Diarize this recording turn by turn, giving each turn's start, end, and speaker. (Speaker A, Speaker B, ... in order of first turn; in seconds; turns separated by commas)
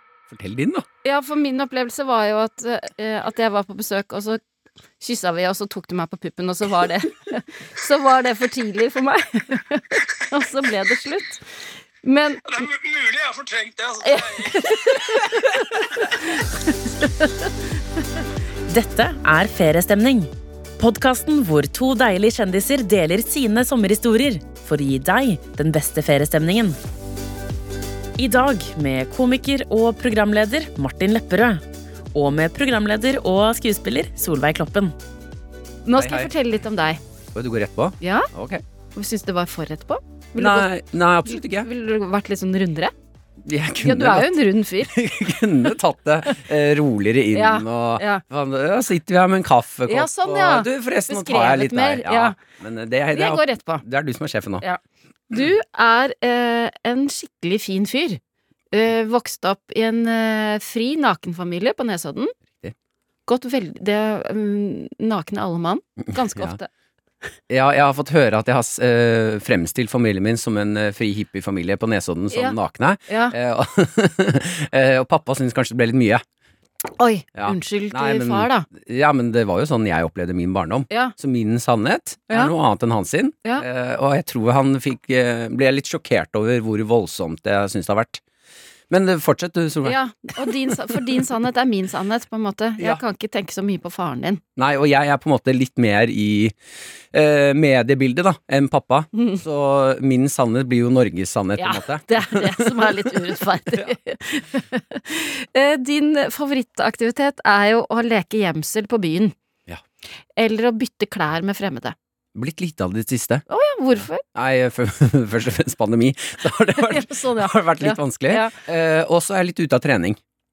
Speaker A: 0.3-0.8, Speaker B: 1.0-4.4, Speaker B: 5.0-11.4, Speaker B: 12.0-12.4, Speaker C: 12.4-15.4, Speaker B: 14.0-17.5, Speaker D: 18.7-26.8, Speaker D: 28.2-31.6, Speaker D: 32.1-34.9, Speaker B: 35.9-37.0, Speaker A: 35.9-36.3, Speaker A: 37.3-38.6, Speaker B: 38.0-38.3, Speaker B: 38.9-40.7, Speaker A: 40.4-41.7, Speaker B: 41.3-42.9, Speaker A: 43.4-54.6, Speaker B: 43.8-44.9, Speaker B: 47.3-48.2, Speaker B: 49.9-52.4, Speaker B: 53.1-53.8, Speaker B: 54.6-58.2, Speaker B: 58.7-62.3, Speaker B: 63.3-66.7, Speaker A: 66.0-66.6, Speaker A: 67.5-76.2, Speaker B: 72.3-72.5, Speaker B: 73.1-73.3, Speaker B: 77.0-78.7, Speaker A: 77.3-88.2, Speaker A: 88.9-90.7, Speaker B: 89.8-94.4, Speaker A: 94.5-96.5, Speaker A: 97.1-103.9, Speaker B: 101.6-109.3, Speaker B: 110.3-111.9, Speaker A: 112.3-113.4, Speaker B: 113.5-114.2, Speaker A: 114.3-120.2, Speaker B: 116.7-118.6